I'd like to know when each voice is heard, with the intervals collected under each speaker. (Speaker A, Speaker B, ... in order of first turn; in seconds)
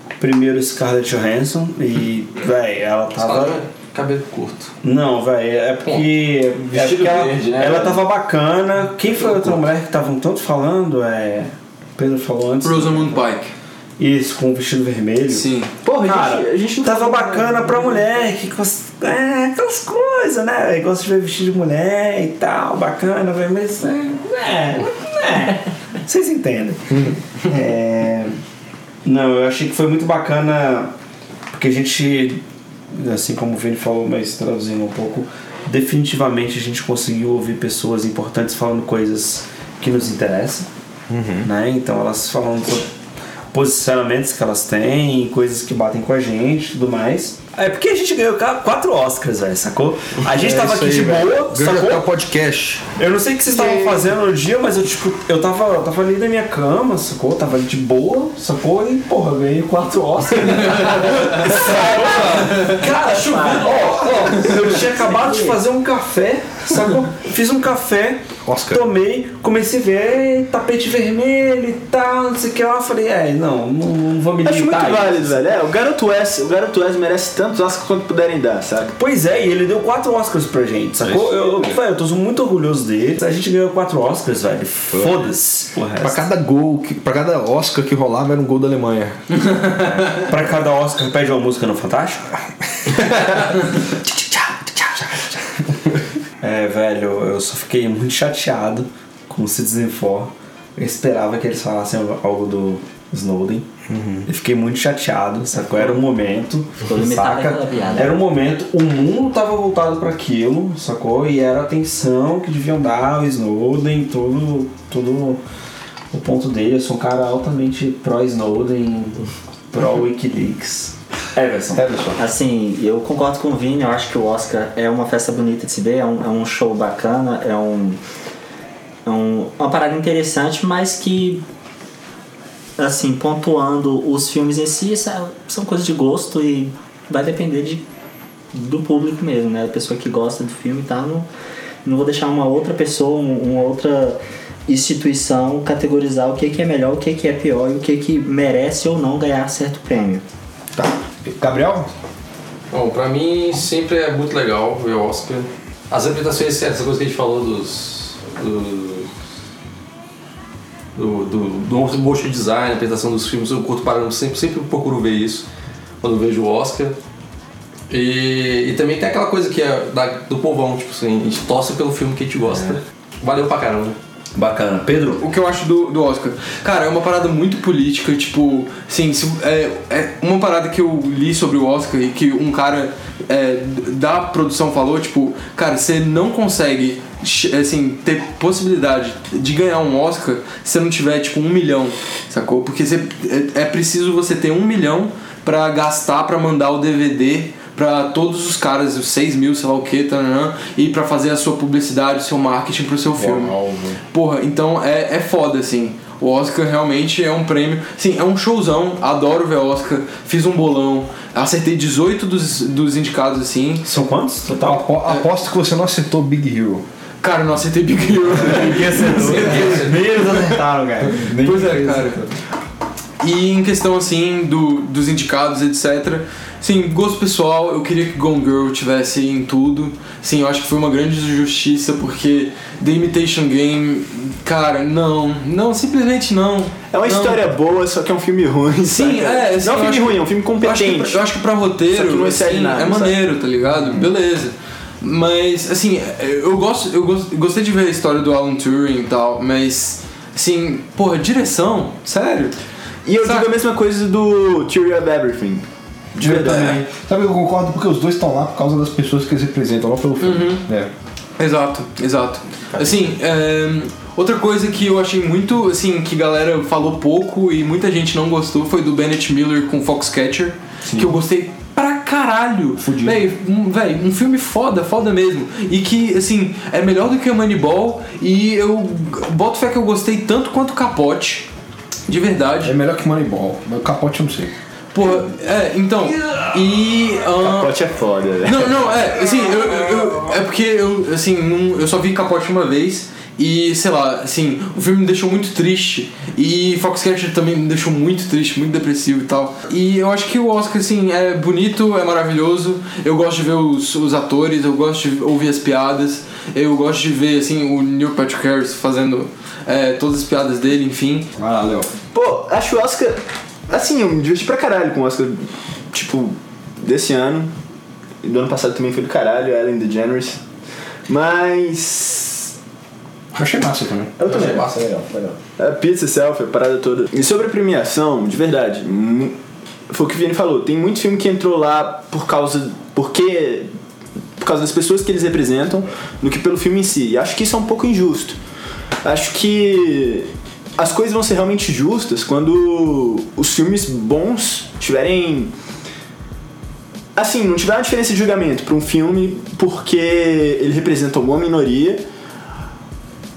Speaker A: 0.2-3.6, 4.8-13.2, 14.0-15.4, 16.0-28.4, 29.0-30.9, 31.5-40.7, 41.4-42.9, 43.5-52.1, 53.0-75.5, 79.0-86.2, 89.7-92.3, 96.4-103.7, 104.2-115.4, 116.1-121.8, 174.3-175.2, 213.8-214.8, 218.3-222.1, 256.2-256.8
Speaker B: 3.1-4.7, 5.8-6.1, 6.7-8.0, 9.2-9.6, 152.7-159.1, 160.9-165.4, 166.0-166.9, 167.9-174.0, 219.2-220.0, 324.2-325.2
Speaker C: 12.6-13.5, 15.3-15.7, 63.4-63.8, 175.2-203.5, 204.1-213.8, 217.2-220.4, 221.2-222.2, 223.2-237.5, 238.8-252.6, 253.2-253.5, 260.2-260.6, 261.4-281.5, 282.1-282.8, 284.9-287.8, 288.4-311.3
Speaker D: 15.8-18.2, 74.4-78.9, 236.9-241.2, 241.9-243.2, 253.0-256.8, 287.4-288.9, 312.1-317.5, 318.2-320.4, 321.1-322.5, 324.2-329.4, 329.9-333.7, 334.4-338.4, 339.0-345.5, 347.1-352.0
Speaker E: 41.1-41.5, 50.2-52.8, 62.0-62.5, 68.4-68.8, 81.0-81.8, 86.0-89.2, 92.9-93.5, 94.1-95.2, 103.9-104.3, 121.7-122.2, 150.7-151.9, 203.2-204.0, 214.6-216.8, 256.2-260.9, 270.9-271.1, 272.8-273.3, 282.6-284.5, 311.4-311.9, 323.3-324.1
Speaker F: 65.2-65.5, 106.8-108.2, 122.2-128.0, 129.0-131.4, 132.8-137.8, 138.5-141.3, 141.8-150.2